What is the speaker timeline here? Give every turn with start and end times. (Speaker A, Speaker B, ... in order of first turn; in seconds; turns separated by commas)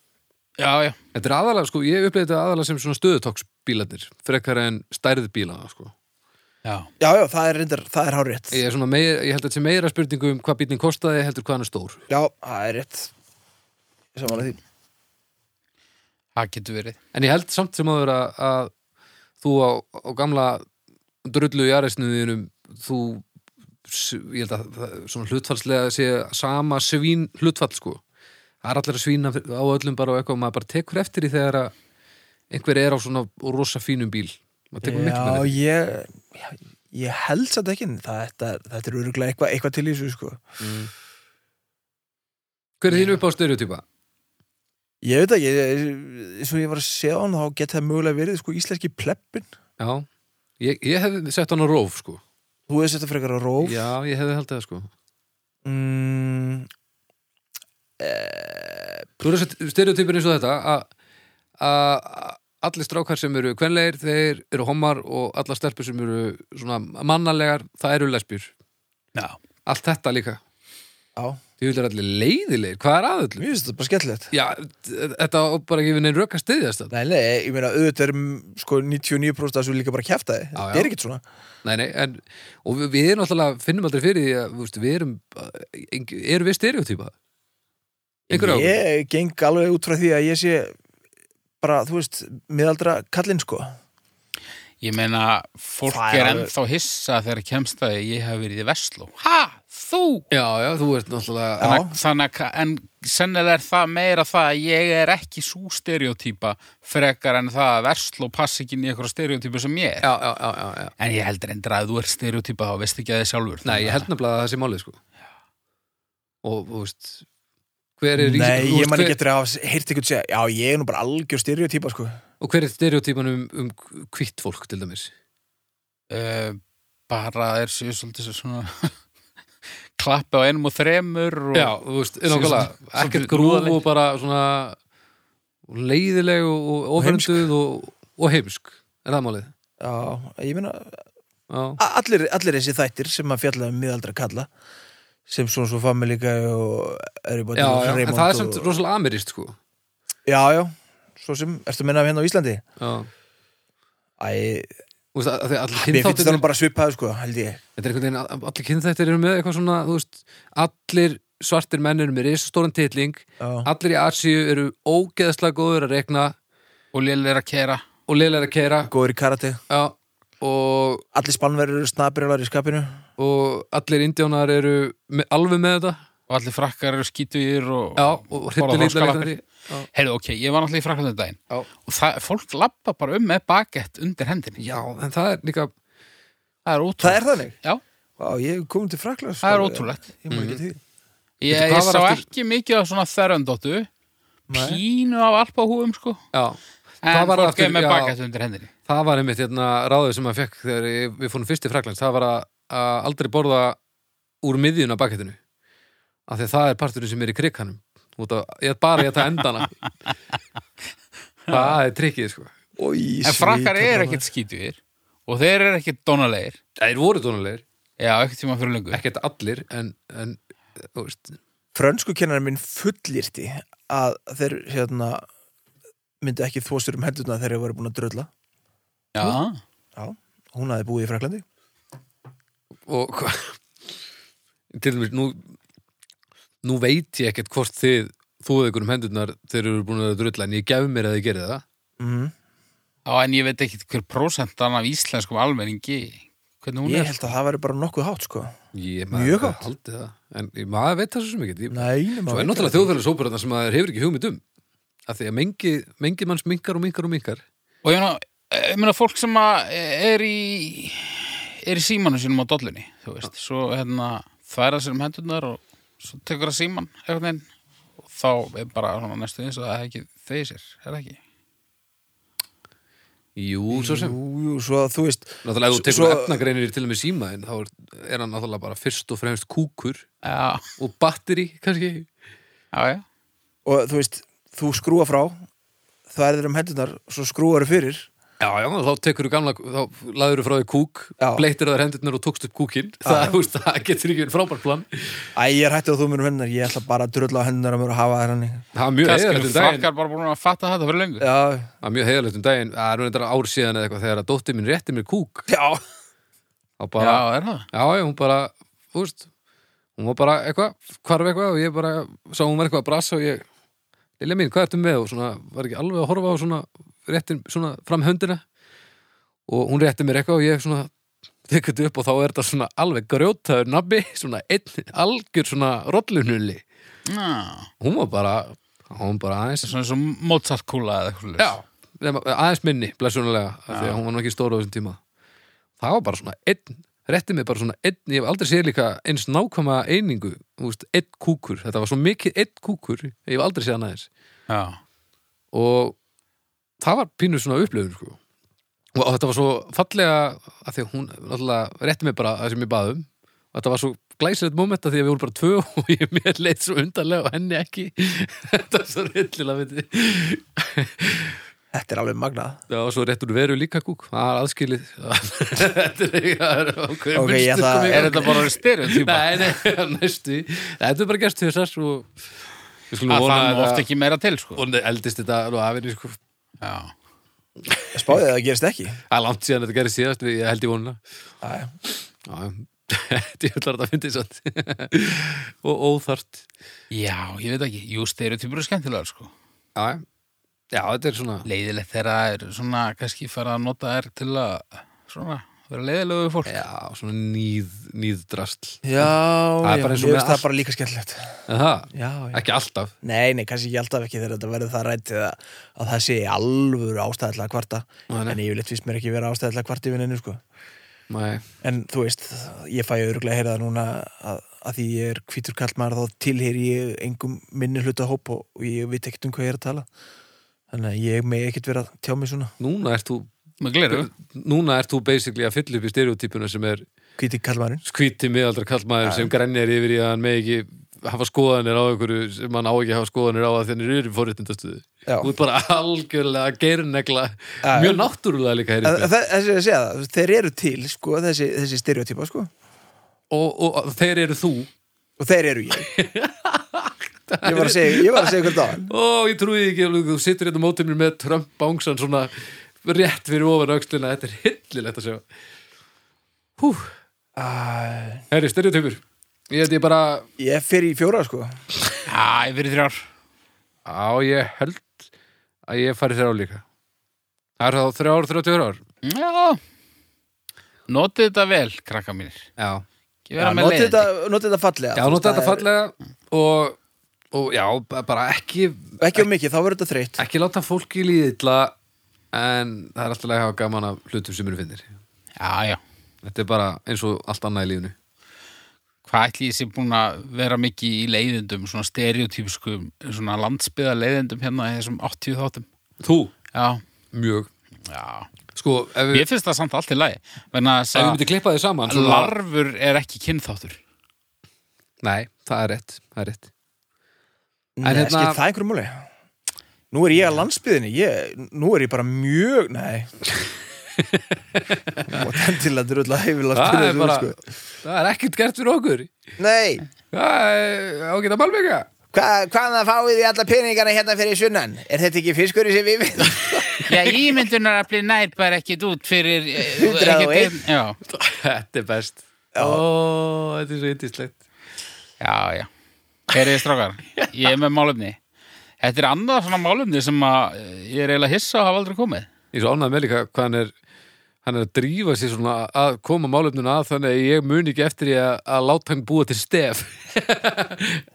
Speaker A: 0.6-1.0, Speaker B: 1.1-5.9, Speaker A: 6.7-6.9, Speaker C: 7.0-8.6, Speaker B: 8.5-12.0, Speaker C: 12.1-13.1, Speaker C: 14.2-14.6, Speaker A: 16.4-17.0, Speaker B: 17.1-18.7, Speaker B: 19.4-20.7, Speaker B: 21.2-23.2, Speaker B: 23.9-28.0, Speaker B: 28.6-31.7, Speaker B: 32.5-35.6, Speaker C: 34.8-40.4, Speaker B: 40.6-40.9, Speaker B: 42.8-43.8, Speaker C: 45.0-49.5, Speaker B: 49.8-50.1, Speaker B: 50.6-52.2, Speaker C: 52.7-53.9, Speaker B: 53.6-54.9, Speaker C: 55.6-56.7, Speaker C: 58.0-59.1, Speaker B: 59.2-60.9, Speaker B: 61.6-68.5, Speaker B: 69.7-70.4, Speaker C: 71.2-71.4, Speaker B: 71.6-73.5, Speaker C: 73.4-74.3, Speaker B: 74.3-76.9, Speaker C: 76.9-81.2, Speaker B: 80.6-80.9, Speaker B: 81.6-87.1, Speaker B: 88.3-88.8, Speaker C: 88.3-90.7, Speaker C: 91.6-93.8, Speaker A: 94.8-100.3, Speaker C: 95.9-96.5, Speaker B: 100.3-101.8, Speaker C: 101.6-101.9, Speaker A: 101.6-110.1, Speaker B: 110.0-110.9, Speaker A: 111.0-114.1, Speaker B: 113.6-115.0, Speaker B: 116.4-117.2, Speaker B: 118.0-119.2, Speaker C: 118.2-122.2, Speaker B: 122.4-125.1, Speaker A: 126.1-128.9, Speaker A: 130.0-133.8, Speaker B: 131.5-134.8, Speaker B: 135.7-139.5, Speaker C: 137.0-137.5, Speaker C: 139.8-141.0, Speaker B: 141.5-141.8, Speaker C: 141.8-144.5, Speaker C: 145.3-148.7, Speaker B: 147.6-149.6, Speaker C: 150.3-152.6, Speaker B: 152.8-153.1, Speaker C: 154.2-154.7, Speaker B: 155.1-156.4, Speaker C: 155.8-157.6, Speaker B: 157.8-166.3, Speaker C: 163.4-163.7, Speaker A: 166.9-167.8, Speaker B: 168.1-168.9, Speaker C: 168.9-169.6, Speaker B: 169.7-171.1, Speaker C: 171.1-173.0, Speaker B: 173.2-176.0, Speaker A: 176.3-184.6, Speaker B: 178.0-179.9, Speaker B: 184.6-185.7, Speaker A: 186.7-187.8, Speaker C: 187.0-187.6, Speaker C: 188.2-190.8, Speaker A: 189.4-190.1, Speaker B: 190.3-190.6, Speaker A: 191.4-193.9, Speaker B: 191.5-192.2, Speaker C: 194.5-194.8, Speaker A: 194.5-196.2, Speaker B: 196.3-198.1, Speaker A: 197.0-198.7, Speaker B: 198.9-203.8, Speaker B: 204.4-205.4, Speaker B: 206.3-209.7, Speaker A: 211.5-211.7, Speaker B: 211.5-212.5, Speaker C: 212.8-214.2, Speaker A: 213.2-216.6, Speaker B: 216.8-217.6, Speaker A: 218.0-219.0, Speaker B: 218.9-221.4, Speaker C: 221.7-225.3, Speaker C: 226.2-228.3, Speaker A: 229.1-229.6, Speaker C: 229.9-231.4, Speaker B: 232.9-233.6, Speaker B: 234.7-235.4, Speaker B: 236.6-241.6, Speaker C: 242.0-242.3, Speaker A: 243.1-247.3, Speaker C: 246.8-248.6, Speaker B: 248.7-254.4, Speaker C: 249.1-249.6, Speaker C: 251.7-252.9, Speaker B: 255.1-257.4, Speaker A: 257.8-267.4, Speaker A: 268.1-271.2, Speaker B: 273.4-274.2, Speaker C: 273.7-276.4, Speaker B: 275.4-280.1, Speaker A: 280.2-280.6, Speaker B: 280.8-282.1, Speaker A: 282.7-283.0, Speaker C: 283.6-285.4, Speaker C: 286.1-288.1, Speaker B: 288.4-295.3, Speaker C: 291.2-291.4, Speaker C: 293.1-293.4, Speaker C: 295.4-298.6, Speaker B: 298.7-299.9, Speaker A: 299.0-301.3, Speaker C: 301.2-301.7, Speaker B: 301.8-305.5, Speaker C: 305.5-305.8, Speaker B: 306.8-309.3, Speaker A: 307.0-307.7, Speaker B: 310.0-313.4, Speaker B: 314.2-318.4, Speaker B: 319.5-320.9, Speaker B: 321.5-326.6, Speaker A: 327.1-327.7, Speaker B: 327.8-329.7, Speaker A: 329.6-331.6, Speaker B: 331.4-335.0, Speaker A: 333.7-334.0, Speaker B: 335.8-344.1, Speaker A: 344.5-344.8, Speaker B: 345.5-345.9, Speaker B: 346.8-348.2, Speaker B: 348.9-361.4, Speaker C: 361.7-362.6, Speaker B: 362.7-372.1, Speaker C: 367.1-368.4, Speaker A: 367.9-369.6, Speaker B: 372.9-373.9, Speaker A: 373.1-374.6, Speaker B: 374.6-376.2, Speaker A: 376.6-376.9, Speaker B: 377.6-378.2, Speaker C: 377.9-379.0, Speaker B: 379.1-381.0, Speaker C: 381.4-381.7, Speaker B: 382.2-386.4, Speaker A: 386.9-389.3, Speaker B: 389.8-390.0, Speaker B: 390.7-391.4, Speaker A: 391.4-396.6, Speaker B: 396.4-399.1, Speaker C: 398.8-402.4, Speaker B: 399.6-400.4, Speaker B: 401.5-402.9, Speaker C: 403.0-410.4, Speaker B: 408.1-408.4, Speaker B: 411.1-411.4, Speaker C: 411.6-419.9, Speaker C: 420.7-422.5, Speaker B: 422.6-423.3, Speaker A: 423.6-424.1, Speaker B: 423.9-426.9, Speaker C: 427.2-427.8, Speaker B: 427.9-439.1, Speaker C: 429.0-429.3, Speaker C: 435.1-435.3, Speaker C: 437.6-438.1, Speaker C: 438.8-442.5, Speaker B: 443.3-444.7, Speaker C: 445.2-445.9, Speaker B: 445.8-455.3, Speaker C: 447.4-448.9, Speaker B: 456.6-456.9, Speaker C: 457.4-458.2, Speaker B: 458.3-460.3, Speaker C: 460.4-461.6, Speaker A: 462.1-463.1, Speaker B: 463.9-465.1, Speaker B: 465.7-466.6, Speaker B: 467.6-468.8, Speaker A: 469.0-469.6, Speaker A: 470.9-472.5, Speaker B: 472.6-472.9, Speaker A: 473.3-474.1, Speaker C: 473.4-475.6, Speaker B: 474.9-476.8, Speaker B: 477.3-479.3, Speaker C: 479.0-480.2, Speaker B: 480.2-481.7, Speaker B: 482.3-484.9, Speaker A: 485.4-485.8, Speaker B: 486.2-487.9, Speaker A: 489.1-495.7, Speaker B: 496.0-496.3, Speaker A: 496.5-496.8, Speaker B: 497.1-497.5, Speaker A: 497.9-498.3, Speaker B: 498.6-499.3, Speaker A: 499.1-501.2, Speaker B: 500.9-502.3, Speaker A: 501.9-503.8, Speaker B: 505.0-506.5, Speaker C: 507.8-509.1, Speaker B: 507.8-508.4, Speaker C: 509.9-513.1, Speaker B: 514.0-515.4, Speaker C: 515.0-517.4, Speaker B: 516.5-519.1, Speaker C: 519.4-519.9, Speaker B: 520.1-521.9, Speaker C: 522.1-526.6, Speaker B: 526.2-527.2, Speaker A: 526.9-531.0, Speaker C: 529.7-530.5, Speaker B: 531.0-534.4, Speaker C: 532.5-532.8, Speaker A: 535.2-535.7, Speaker A: 536.3-538.2, Speaker A: 538.8-542.3, Speaker B: 542.5-543.7, Speaker B: 544.4-551.0